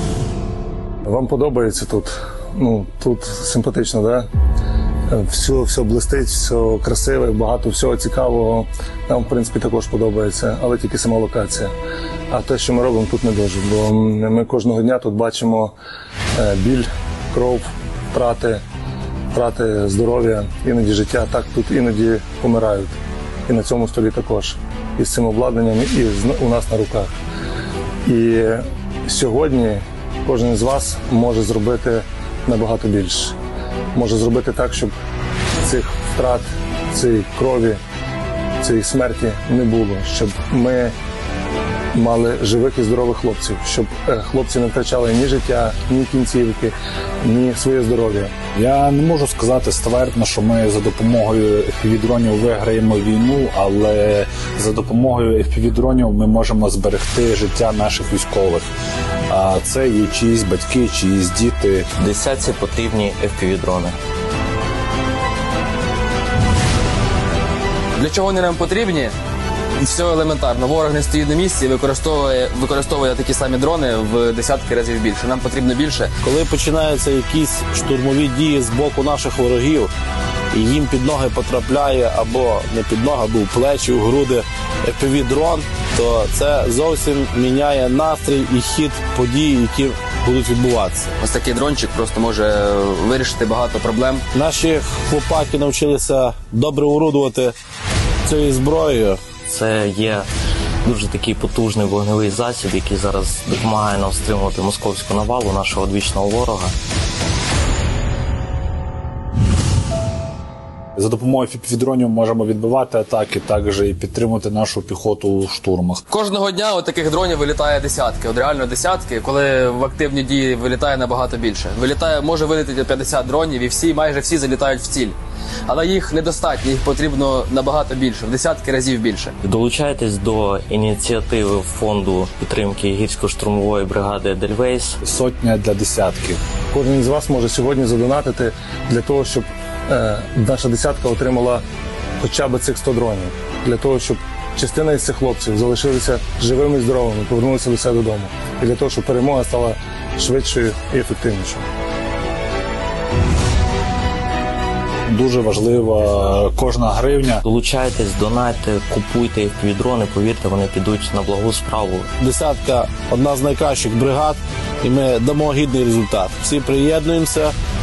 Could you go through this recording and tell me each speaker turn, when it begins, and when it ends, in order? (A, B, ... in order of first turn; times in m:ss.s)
0:01.1-0:04.3 A
0:05.1-0:11.7 A
0:12.3-0:15.7 A
0:16.4-0:18.6 A
0:19.3-0:27.1 A
0:28.1-0:33.4 A
0:33.9-0:34.9 A
0:35.6-0:37.8 A
0:38.6-0:40.9 A
0:41.9-0:48.3 A
0:48.6-0:58.7 B
0:59.3-1:01.9 B
1:02.0-1:04.0 C
1:08.0-1:09.1 D
1:09.8-1:16.1 D
1:16.2-1:19.9 E
1:20.5-1:31.1 E
1:31.2-1:34.2 D
1:34.3-1:37.6 E
1:38.2-1:39.2 E
1:39.5-1:40.3 C
1:40.8-1:46.7 C
1:51.0-1:56.0 B
1:56.1-2:05.2 D
2:05.7-2:09.3 D
2:09.4-2:15.0 C
2:15.0-2:16.4 B
2:16.7-2:21.6 A
2:22.2-2:31.6 A
2:35.1-2:37.4 B
2:37.4-2:42.1 C
2:42.2-2:47.5 E